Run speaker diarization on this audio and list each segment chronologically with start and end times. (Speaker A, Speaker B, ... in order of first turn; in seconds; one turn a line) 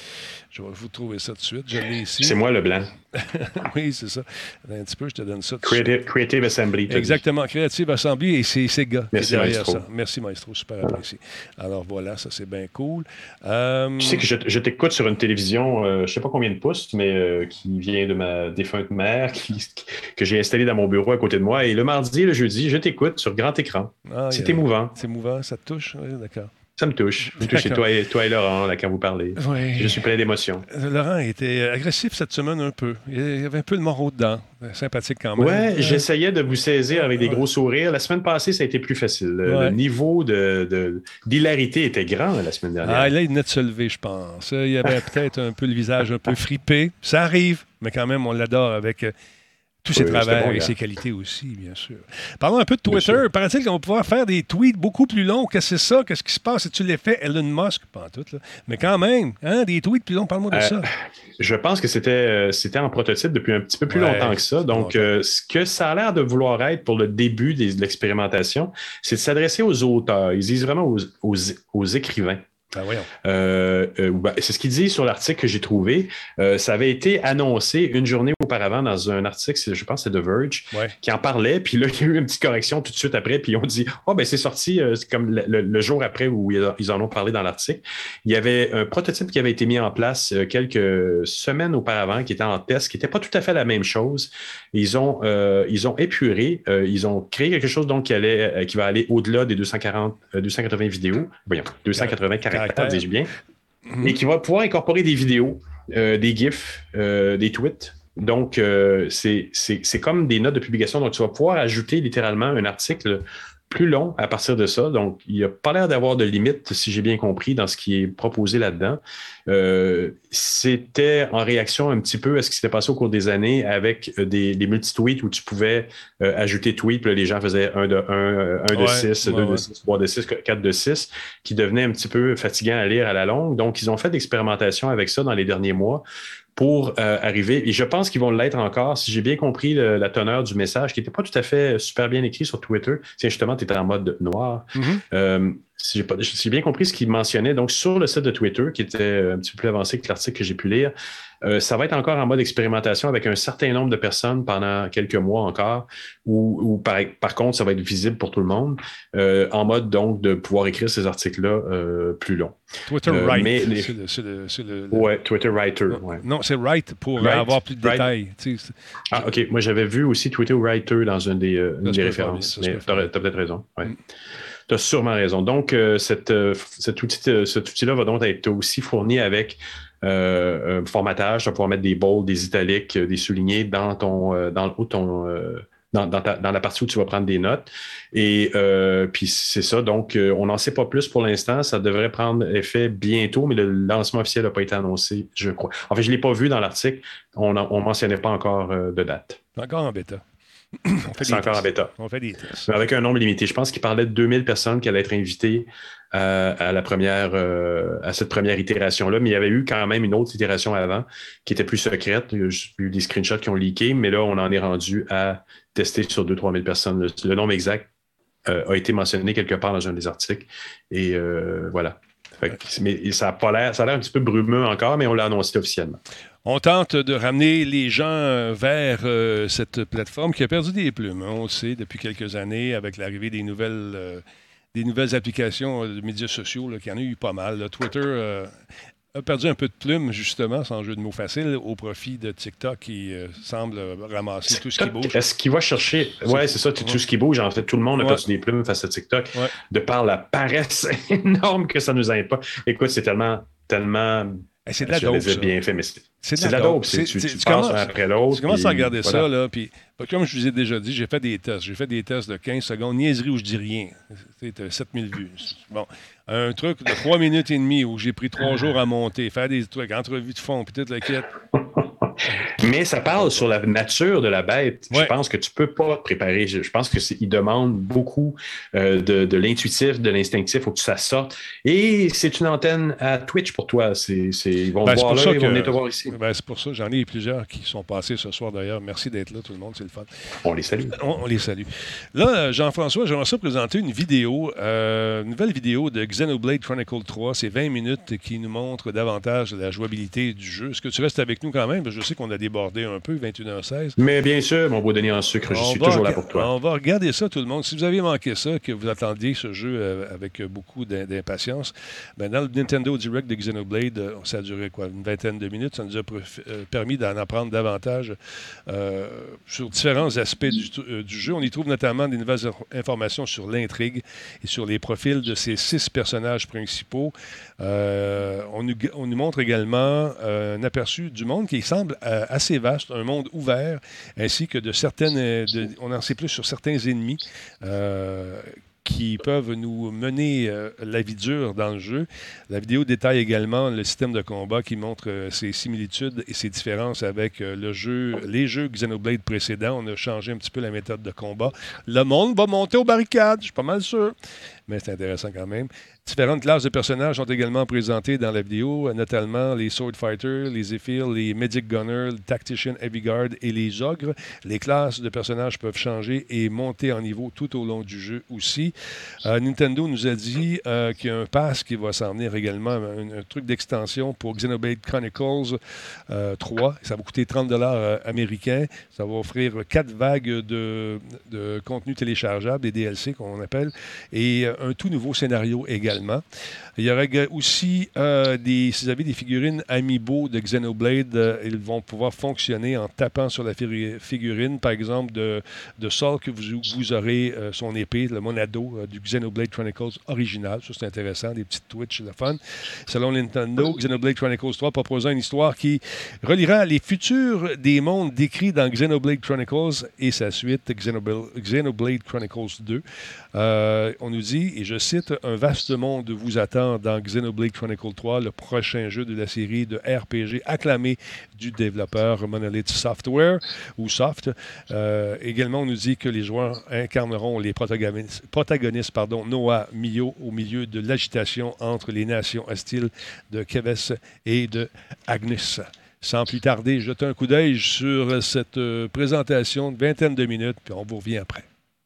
Speaker A: 0.5-2.4
Speaker B: 2.2-2.9
Speaker A: 3.1-5.9
Speaker B: 5.6-7.2
Speaker A: 6.9-14.2
Speaker B: 9.1-9.8
Speaker B: 14.0-24.9
Speaker A: 24.1-26.5
Speaker B: 26.8-30.6
Speaker A: 27.3-27.9
Speaker A: 29.4-30.1
Speaker A: 30.7-36.0
Speaker B: 35.4-43.1
Speaker A: 37.1-37.5
Speaker A: 39.5-39.8
Speaker A: 42.8-49.1
Speaker A: 49.8-60.9
Speaker B: 49.9-50.8
Speaker B: 52.9-53.2
Speaker B: 60.5-72.5
Speaker A: 63.9-65.1
Speaker A: 72.7-73.1
Speaker B: 73.2-103.3
Speaker A: 102.0-103.1
Speaker A: 103.9-104.2
Speaker B: 104.0-136.0
Speaker A: 128.7-129.7
Speaker B: 136.6-163.9
Speaker A: 144.8-145.0
Speaker A: 162.9-165.1
Speaker B: 164.9-166.2
Speaker A: 165.9-169.3
Speaker B: 167.2-168.1
Speaker B: 169.1-173.9
Speaker A: 171.8-173.1
Speaker B: 174.7-199.4
Speaker A: 199.6-200.2
Speaker A: 200.8-202.7
Speaker B: 201.2-201.9
Speaker B: 202.7-217.9
Speaker B: 218.5-226.0
Speaker A: 226.4-238.6
Speaker A: 239.1-245.2
Speaker B: 244.5-259.3
Speaker A: 246.3-247.0
Speaker A: 248.0-248.2
Speaker A: 254.7-255.5
Speaker A: 256.2-271.4
Speaker B: 272.6-286.1
Speaker A: 273.1-273.5
Speaker A: 284.8-290.1
Speaker B: 290.4-290.9
Speaker A: 290.9-304.0
Speaker B: 304.0-306.5
Speaker A: 305.5-354.1
Speaker A: 354.7-368.7
Speaker A: 369.2-375.6
Speaker A: 376.1-386.2
Speaker A: 386.8-441.5